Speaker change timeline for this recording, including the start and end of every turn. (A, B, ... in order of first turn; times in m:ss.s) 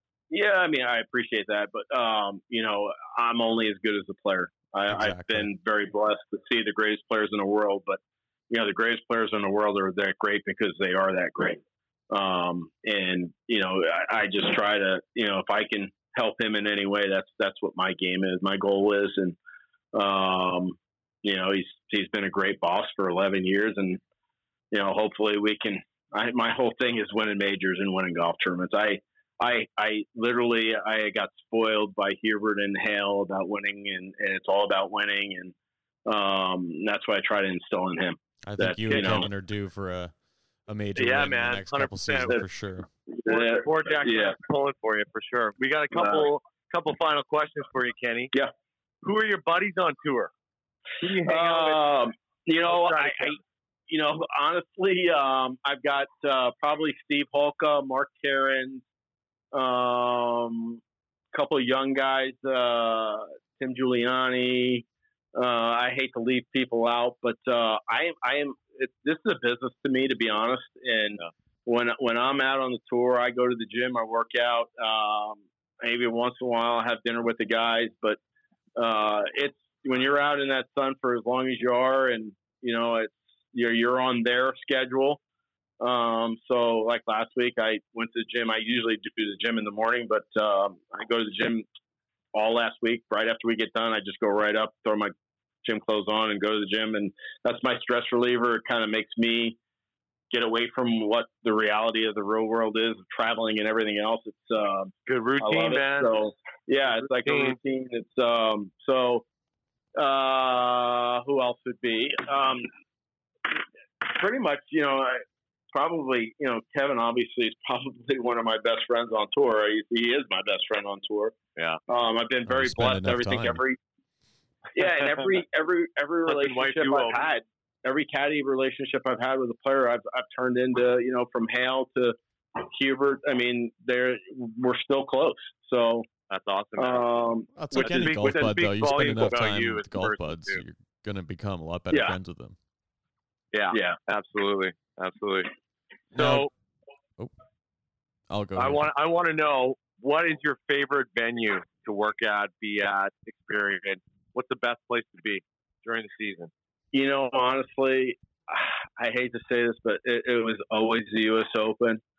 0:00.3-0:19.4 A
0:04.9-0:05.5 B
0:19.9-0:24.0 A
0:24.7-0:35.5 A
0:36.0-0:39.3 A
0:38.4-0:40.1 B
0:38.9-0:39.2 C
0:40.7-0:42.9 B
0:41.0-0:42.4 C
0:43.1-0:44.4 A
0:43.2-0:48.3 C
0:45.9-0:46.3 A
0:49.0-0:50.3 C
0:51.0-0:51.9 C
0:51.2-0:58.8 A
0:52.7-0:53.4 C
0:59.5-1:00.8 A
1:01.3-1:18.2 A
1:18.8-1:25.2 A
1:25.8-1:31.6 A
1:32.3-1:39.6 A
1:40.3-1:49.2 A
1:45.1-1:46.1 C
1:47.0-1:47.6 C
1:50.0-1:52.7 A
1:53.5-2:01.3 A
2:01.9-2:03.8 A
2:02.5-2:03.6 B
2:04.7-2:16.1 A
2:06.3-2:07.2 C
2:16.3-2:17.1 C
2:16.8-2:18.1 A
2:17.6-2:22.6 B
2:17.7-2:20.6 C
2:21.9-2:22.2 A
2:23.5-2:25.5 C
2:23.7-2:24.0 A
2:26.1-2:26.5 C
2:26.1-2:26.5 B
2:28.3-2:28.9 B
2:28.6-2:36.5 C
2:36.9-2:42.0 A